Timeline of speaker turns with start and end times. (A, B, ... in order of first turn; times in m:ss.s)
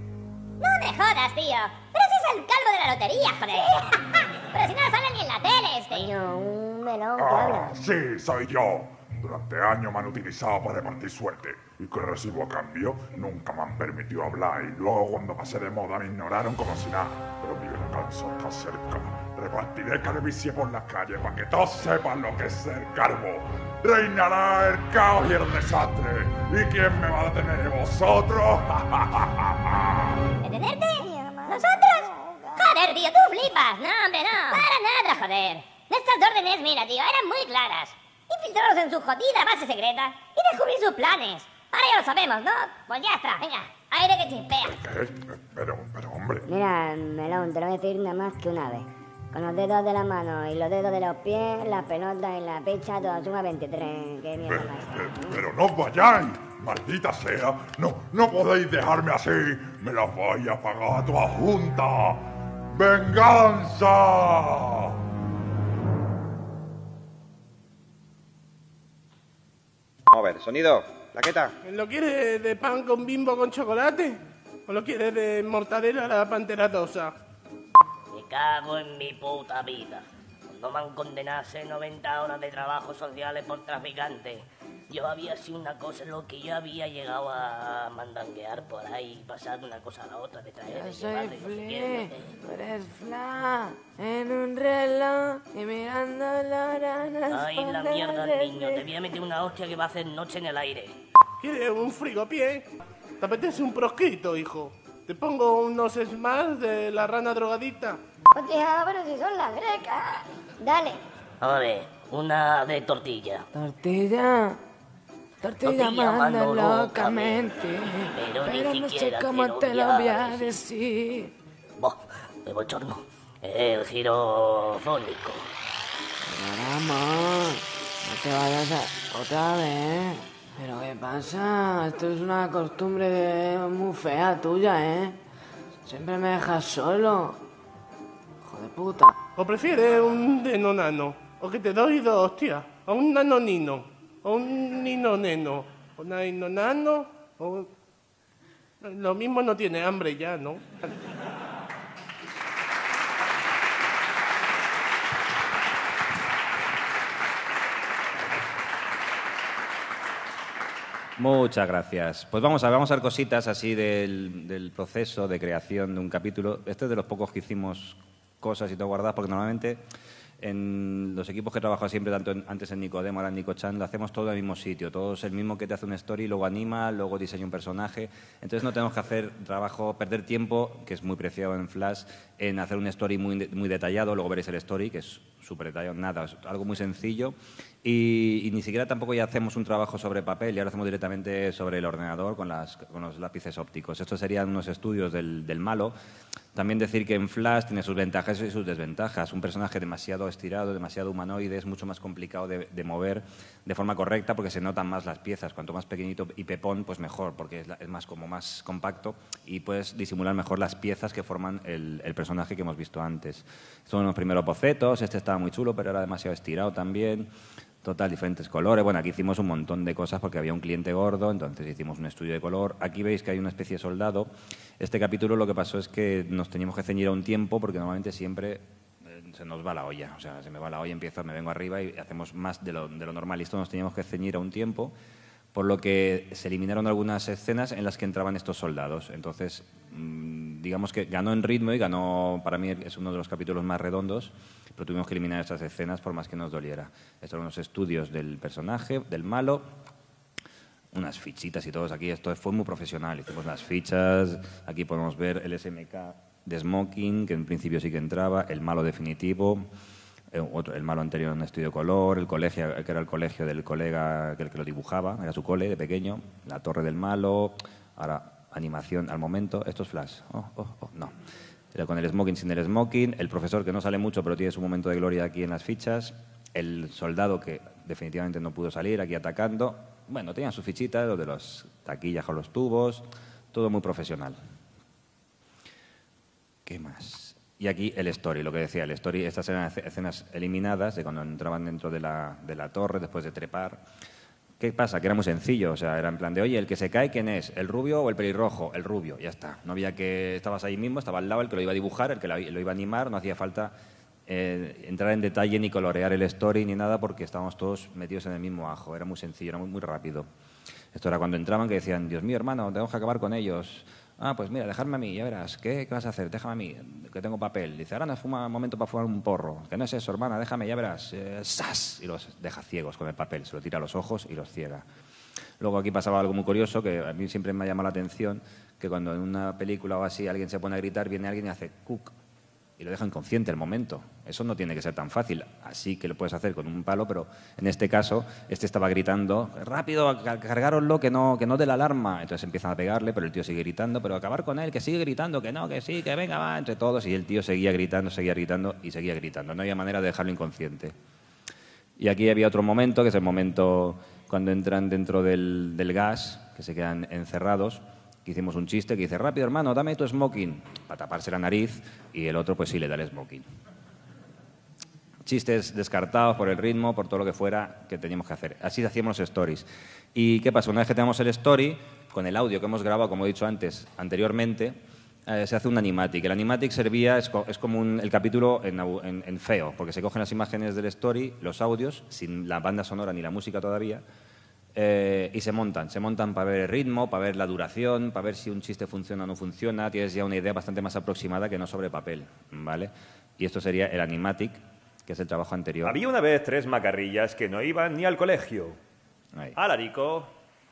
0:00.6-0:06.1 A
0:05.9-0:07.7 B
0:07.2-0:30.1 C
0:30.4-0:44.8 A
0:30.9-0:32.8 B
0:44.6-0:46.4 C
0:46.5-0:55.4 B
0:54.4-1:05.0 C
1:10.1-1:11.5 D
1:11.6-1:17.1 E
1:18.1-1:32.3 F
1:30.7-1:38.8 G
1:37.3-1:41.0 F
1:41.4-1:42.6 E
1:43.2-1:48.0 E
1:48.3-1:51.0 B
1:51.4-1:53.4 F
1:53.5-1:54.6 G
1:55.4-2:01.3 G
1:55.6-2:00.6 F
2:01.8-2:05.5 F
2:06.2-2:15.1 G
2:15.8-2:17.4 G
2:18.4-2:19.1 G
2:19.4-2:27.7 E
2:28.8-2:30.7 E
2:41.2-2:49.8 D
2:50.4-3:15.9 D
3:16.5-3:37.3 D
3:37.8-3:54.9 D
3:55.5-4:09.7 D
4:10.9-4:19.7 D
4:20.3-4:31.1 D
4:31.7-4:44.4 D
4:46.6-4:53.8 D
4:54.6-5:03.7 D
5:04.3-5:10.3 D
5:10.9-5:24.8 D
5:25.6-5:32.1 D
5:32.8-5:50.9 D
5:52.0-6:03.4 D
6:05.2-6:14.8 D
6:15.3-6:24.0 D
6:24.8-6:36.0 D
6:35.8-6:38.8 H
6:39.6-6:40.3 H